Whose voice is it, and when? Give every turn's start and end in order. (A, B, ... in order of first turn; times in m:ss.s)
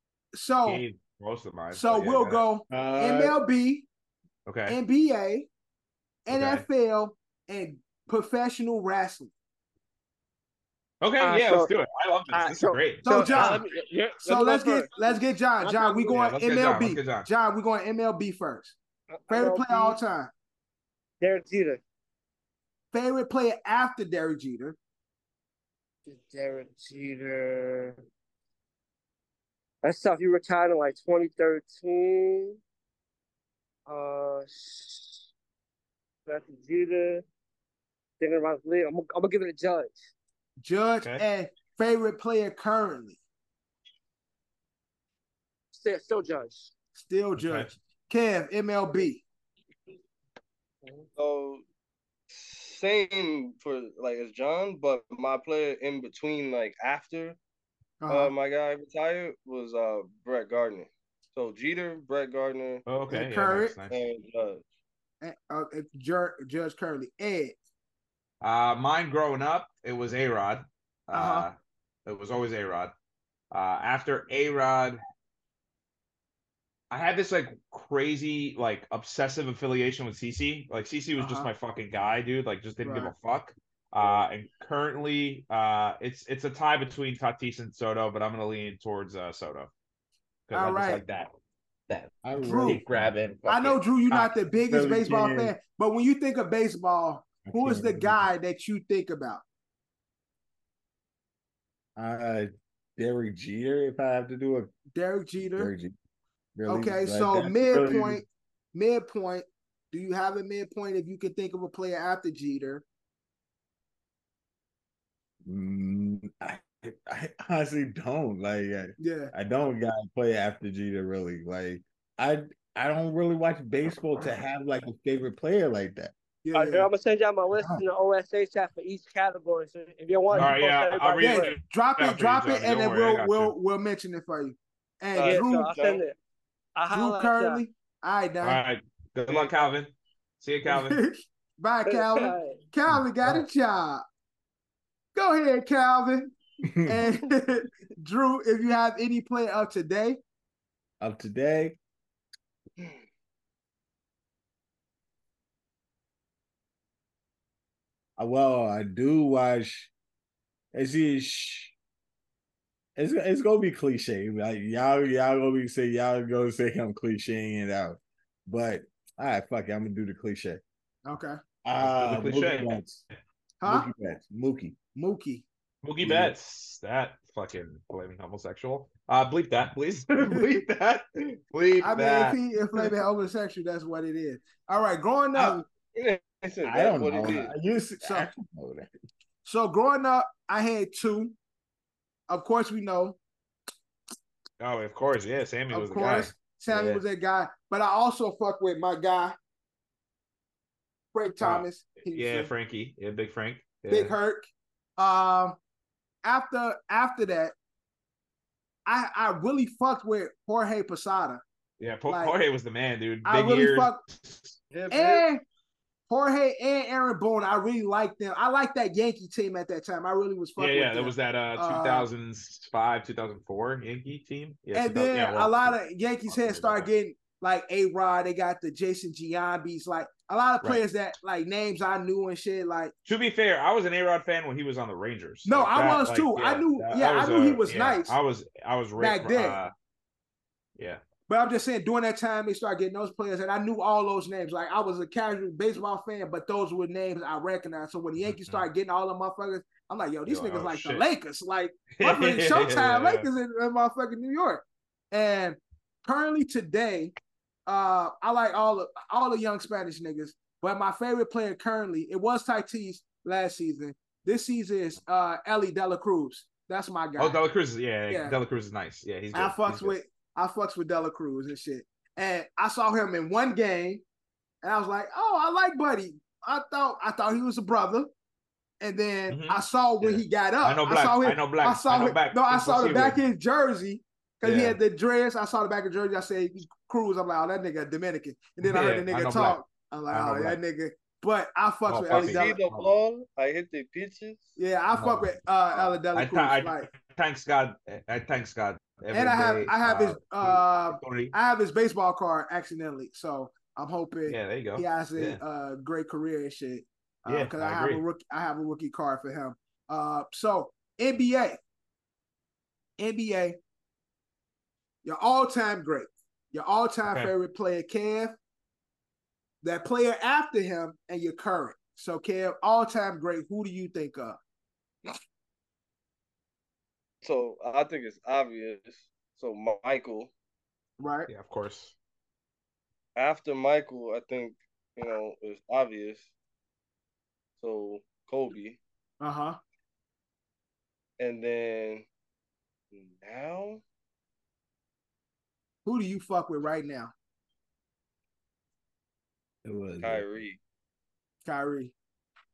0:00.3-0:00.8 A
0:00.6-0:02.4 B
0:01.7-0:03.9 A
0:02.7-0:03.4 C
0:04.4-0:04.8 B
0:04.7-0:05.5 A
0:06.2-0:09.3 A
0:06.3-0:06.6 B
0:11.0-0:13.6 B
0:11.2-0:11.7 D
0:12.3-0:16.2 D
0:13.0-0:13.6 A
0:14.2-0:18.8 A
0:16.1-0:17.3 B
0:19.1-0:20.0 D
0:19.3-0:20.3 A
0:21.2-0:21.8 D
0:22.9-0:24.8 A
0:26.0-0:28.0 D
0:29.8-0:32.6 D
0:33.9-0:35.3 D
0:36.2-0:37.2 D
0:38.2-0:40.0 D
0:40.6-0:43.2 A
0:45.7-0:46.7 D
0:47.0-0:49.2 A
0:47.4-0:47.7 B
0:51.2-0:51.6 E
0:52.3-0:57.4 E
0:58.0-0:58.3 A
0:58.1-1:02.8 E
1:02.8-1:04.0 B
1:03.1-1:03.8 A
1:03.9-1:04.6 E
1:05.2-1:07.6 A
1:08.4-1:11.5 B
1:11.1-1:11.5 A
1:12.0-1:12.9 B
1:13.5-1:15.0 B
1:16.9-1:29.7 B
1:21.2-1:21.5 A
1:22.8-1:23.1 A
1:30.5-1:31.3 B
1:30.5-1:31.0 A
1:31.9-1:33.8 B
1:32.2-1:33.1 C
1:32.4-1:32.8 A
1:33.4-1:39.4 A
1:34.1-1:35.5 C
1:37.4-1:38.2 C
1:42.0-1:44.7 C
1:44.9-1:45.7 A
1:45.4-1:45.9 C
1:46.6-1:48.2 C
1:46.7-1:52.8 A
1:55.4-2:06.1 C
1:59.0-1:59.3 A
2:06.4-2:06.9 A
2:06.5-2:11.5 D
2:07.6-2:07.8 C
2:10.3-2:13.5 B
2:11.2-2:15.7 A
2:15.1-2:16.0 E
2:15.2-2:16.2 D
2:16.8-2:17.6 D
2:16.9-2:18.6 A
2:18.4-2:21.0 B
2:19.3-2:19.5 E
2:20.6-2:24.0 A
2:21.9-2:22.6 D
2:25.1-2:26.3 A
2:26.6-2:27.0 C
2:26.8-2:30.2 A
2:31.0-2:31.8 C
2:38.2-2:39.9 C
2:40.7-2:41.7 C
2:43.0-2:50.6 C
2:51.0-2:51.4 A
2:51.6-2:53.0 C
2:51.8-2:52.8 B
2:53.6-2:53.9 A
2:53.6-2:54.8 C
2:54.9-2:55.4 A
2:55.8-3:02.9 B
2:56.0-2:56.3 C
3:01.8-3:05.6 A
3:05.9-3:07.5 E
3:06.6-3:08.9 C
3:08.0-3:08.3 A
3:09.4-3:11.3 A
3:12.3-3:13.2 A
3:14.6-3:17.0 B
3:15.7-3:19.4 A
3:21.1-3:22.5 A
3:21.4-3:24.1 B
3:23.9-3:25.6 A
3:26.2-3:27.5 A
3:28.8-3:31.4 A
3:31.8-3:34.6 B
3:32.1-3:32.4 A
3:33.2-3:34.0 A
3:34.7-3:35.3 E
3:34.9-3:35.4 A
3:36.1-3:42.1 A
3:40.6-3:46.9 B
3:44.7-3:52.9 A
3:53.0-3:59.7 B
3:55.4-3:58.2 A
3:59.0-3:59.6 A
4:01.3-4:17.1 A
4:08.2-4:08.6 B
4:10.3-4:11.0 B
4:11.9-4:13.3 B
4:17.7-4:27.4 A
4:27.2-4:29.9 B
4:28.1-4:28.4 A
4:29.3-4:34.0 A
4:34.6-4:38.1 A
4:38.8-4:52.6 A
4:39.3-4:43.2 B
4:44.4-4:44.8 B
4:48.6-4:49.6 B
4:50.1-4:50.6 B
4:51.9-4:52.9 B
4:52.1-4:54.5 E
4:54.6-4:56.9 A
4:54.9-4:55.2 B
4:56.1-5:01.3 B
4:59.1-5:11.6 A
5:04.3-5:05.4 B
5:07.3-5:08.0 B
5:13.0-5:13.6 A
5:15.0-5:18.4 A
5:17.0-5:17.3 B
5:19.6-5:24.4 A
5:27.2-5:30.3 E
5:31.0-5:31.3 A
5:31.3-5:31.9 B
5:33.2-5:36.3 E
5:37.6-5:38.8 E
5:39.2-5:39.6 A
5:41.2-5:42.0 E
5:42.9-5:43.8 E
5:45.8-5:47.1 A
5:49.6-5:50.2 C
5:50.0-5:50.6 E
5:51.4-5:51.9 A